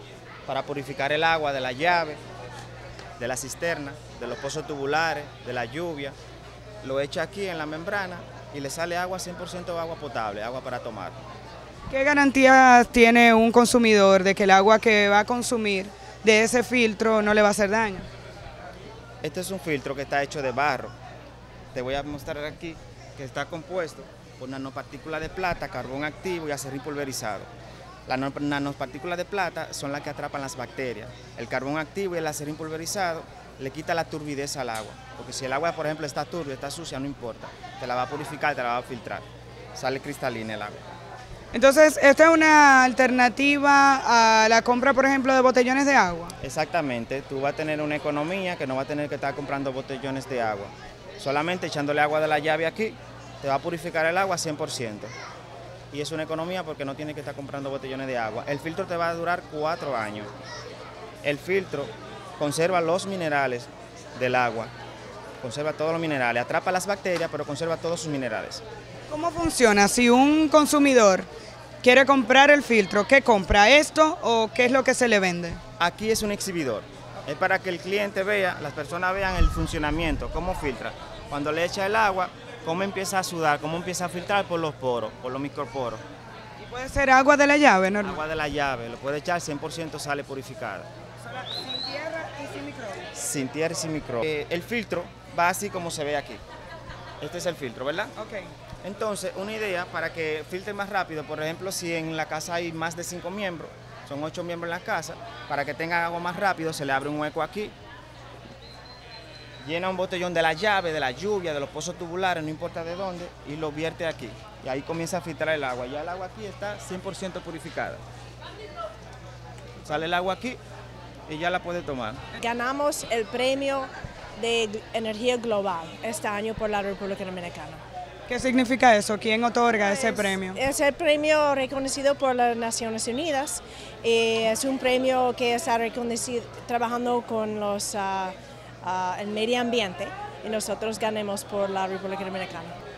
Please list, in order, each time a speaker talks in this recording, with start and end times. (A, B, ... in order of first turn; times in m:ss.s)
0:00.4-0:02.2 A
0:03.2-0:06.2 A
0:06.8-0:11.2 A
0:11.9-0:18.1 B
0:19.2-0:20.9 A
0:21.7-0:27.5 A
0:28.1-0:40.8 A
0:41.5-0:46.3 B
0:46.4-0:55.1 A
0:55.9-1:00.3 A
1:01.2-1:04.7 A
1:05.4-1:08.6 A
1:09.1-1:11.3 B
1:11.8-1:15.6 B
1:15.8-1:26.0 A
1:26.6-1:28.2 B
1:28.0-1:30.9 A
1:31.2-1:33.1 B
1:33.1-1:36.4 A
1:37.2-1:38.1 A
1:38.2-1:38.5 B
1:38.8-1:47.7 A
1:49.6-1:58.0 A
1:59.8-2:00.6 A
2:01.3-2:02.2 A
2:02.4-2:07.8 C
2:08.3-2:10.6 B
2:09.8-2:22.7 C